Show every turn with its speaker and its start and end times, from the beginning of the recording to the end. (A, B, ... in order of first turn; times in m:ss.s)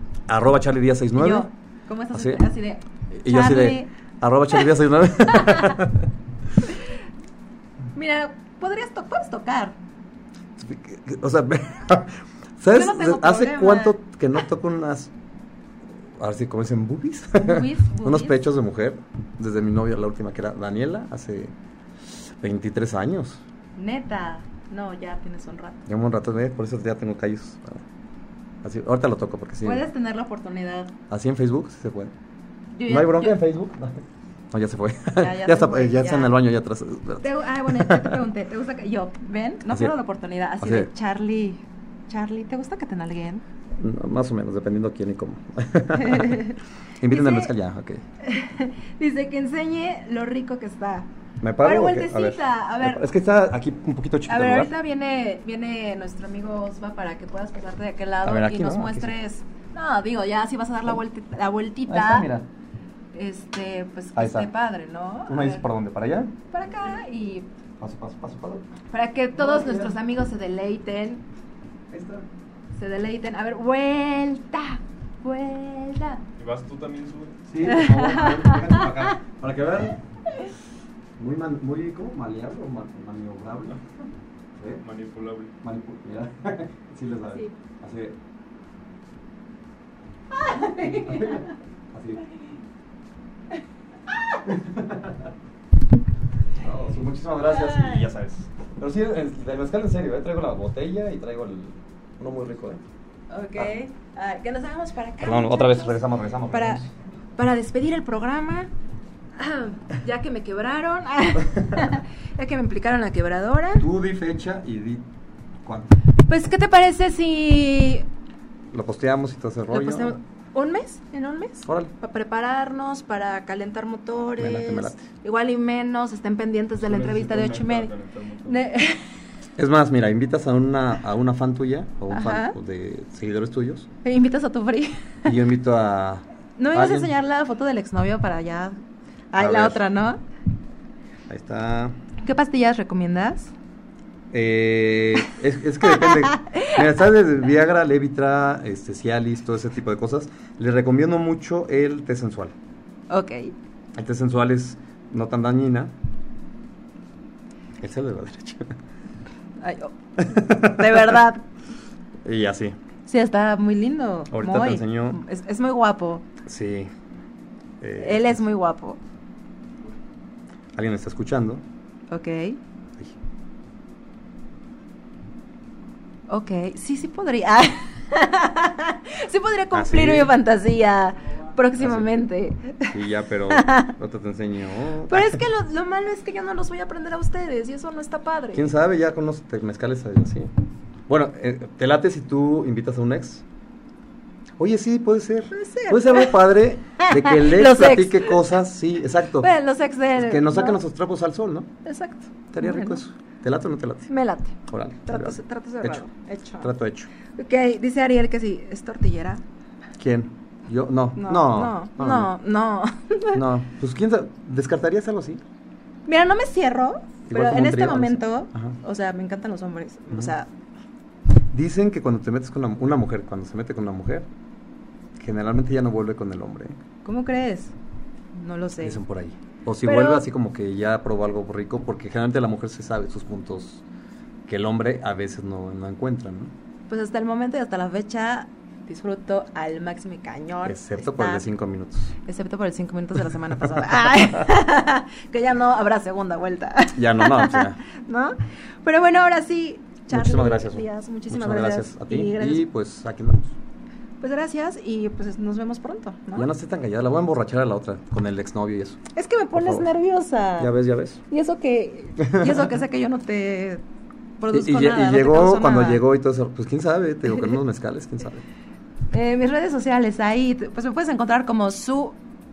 0:00.3-0:01.5 A
0:01.2-0:03.9 B
0:02.1-0:02.4 A
0:03.1-0:06.1 A
0:05.3-0:05.8 B
0:07.9-0:09.8 B
0:10.6-0:15.1 A
0:12.7-0:14.0 B
0:16.2-0:21.5 A
0:17.3-0:18.4 B
0:22.4-0:23.4 A
0:23.8-0:25.8 B
0:25.8-0:27.8 A
0:28.6-0:29.8 A
0:29.6-0:30.9 B
0:31.1-0:32.1 A
0:32.7-0:33.4 B
0:32.9-0:38.2 A
0:35.2-0:36.3 B
0:37.2-0:43.4 B
0:40.6-0:40.9 A
0:43.8-0:48.0 A
0:45.9-0:46.6 B
0:47.1-0:47.5 B
0:48.2-0:51.1 B
0:51.4-0:54.7 A
0:51.6-0:53.0 B
0:54.3-1:02.3 B
0:58.2-0:59.1 A
1:01.9-1:02.4 A
1:03.1-1:05.6 B
1:04.2-1:04.5 A
1:05.3-1:06.3 A
1:06.5-1:07.5 B
1:07.8-1:08.6 A
1:08.9-1:11.2 B
1:09.3-1:10.0 A
1:11.9-1:12.3 A
1:12.7-1:16.2 B
1:16.4-1:17.4 C
1:17.5-1:20.0 A
1:17.6-1:19.0 B
1:21.2-1:23.8 A
1:24.7-1:25.5 C
1:25.6-1:28.2 A
1:30.3-1:31.5 B
1:30.8-1:32.2 A
1:34.4-1:35.3 A
1:36.6-1:42.8 A
1:37.4-1:38.1 B
1:43.3-1:46.0 B
1:45.2-1:46.9 A
1:46.5-1:46.8 B
1:47.4-1:48.7 B
1:49.4-1:53.8 B
1:53.8-1:55.0 A
1:55.6-1:56.0 A
1:56.2-1:58.0 B
1:58.7-2:00.2 A
1:59.7-2:07.9 B
2:01.6-2:01.9 A
2:04.4-2:05.0 A
2:06.8-2:08.6 C
2:08.4-2:09.1 B
2:09.6-2:13.9 A
2:12.1-2:12.6 B
2:14.0-2:15.3 B
2:15.2-2:17.1 A
2:16.6-2:18.8 B
2:19.3-2:20.2 B
2:19.4-2:19.8 A
2:21.3-2:22.0 A
2:22.2-2:23.5 B
2:24.3-2:32.5 A
2:25.8-2:26.8 B
2:33.1-2:33.5 B
2:33.9-2:35.9 A
2:37.8-2:38.7 A
2:39.6-2:41.4 B
2:40.2-2:41.2 A
2:42.2-2:42.8 A
2:43.0-2:46.2 B
2:44.3-2:45.2 A
2:46.4-2:46.9 A
2:47.8-2:48.4 A
2:48.0-2:49.0 B
2:50.7-2:51.6 A
2:52.1-2:52.6 B
2:56.3-3:03.0 B
2:59.7-3:00.3 A
3:01.8-3:02.1 A
3:02.9-3:05.4 A
3:03.5-3:03.9 B
3:05.1-3:08.6 B
3:08.5-3:10.5 A
3:11.1-3:13.4 A
3:14.6-3:19.5 A
3:15.5-3:16.4 B
3:17.0-3:18.4 B
3:19.4-3:20.8 B
3:20.1-3:21.7 A
3:21.8-3:23.0 B
3:22.5-3:24.1 A
3:24.1-3:26.7 B
3:24.7-3:26.0 A
3:26.6-3:27.1 A
3:27.4-3:29.4 B
3:30.0-3:32.3 A
3:31.2-3:33.4 B
3:33.3-3:35.4 A
3:36.0-3:40.5 B
3:37.3-3:38.7 A
3:41.5-3:44.3 A
3:45.2-3:46.8 A
3:47.0-3:47.7 B
3:48.3-3:49.0 B
3:48.8-3:53.8 A
3:49.8-3:50.2 B
3:54.4-3:56.5 A
3:56.9-4:01.4 B
4:00.6-4:02.1 A
4:02.2-4:12.6 B
4:03.6-4:04.4 A
4:07.0-4:07.8 A
4:10.1-4:13.5 A
4:14.2-4:16.5 B
4:16.3-4:19.0 A
4:19.1-4:20.7 B
4:19.5-4:19.9 A
4:20.6-4:21.2 A
4:21.3-4:23.8 B
4:22.2-4:22.7 A
4:24.4-4:26.0 B
4:24.5-4:28.4 A
4:29.1-4:32.2 B